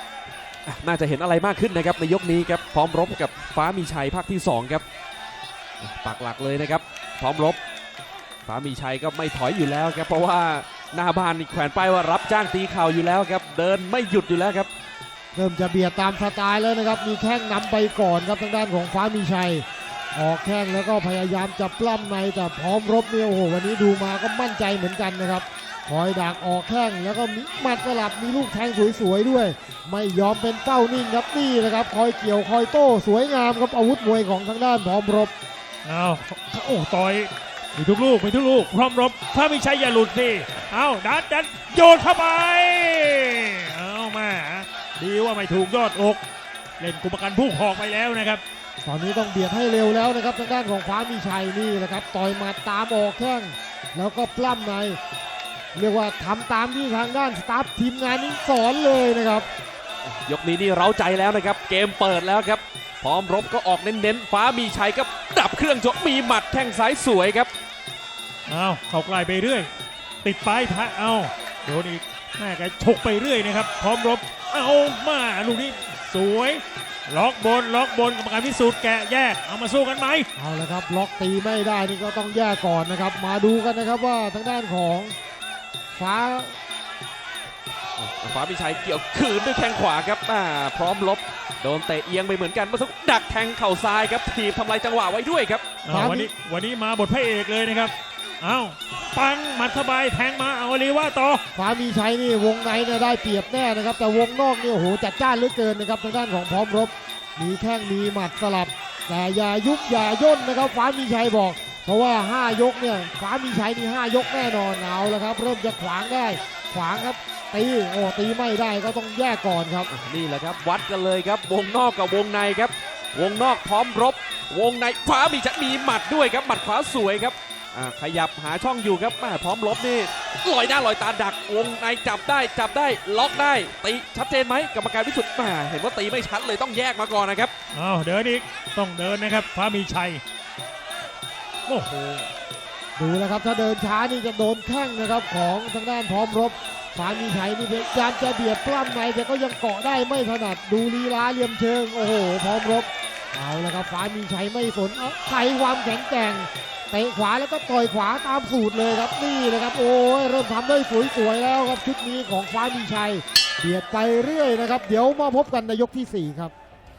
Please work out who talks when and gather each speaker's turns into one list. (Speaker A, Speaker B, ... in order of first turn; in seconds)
Speaker A: 0.7-4.8, 5.8-7.6, 8.4-14.7, 60.2-67.5, 88.0-95.6, 119.9-137.5
Speaker B: 15.3-35.3, 48.8-55.0, 55.7-59.5, 80.4-85.1, 86.0-86.5, 95.9-96.3, 101.5-119.9, 143.0-166.5
Speaker C: 35.9-46.2, 46.8-48.4, 68.5-69.7, 70.2-80.3, 95.8-101.4, 137.7-140.2, 141.7-142.3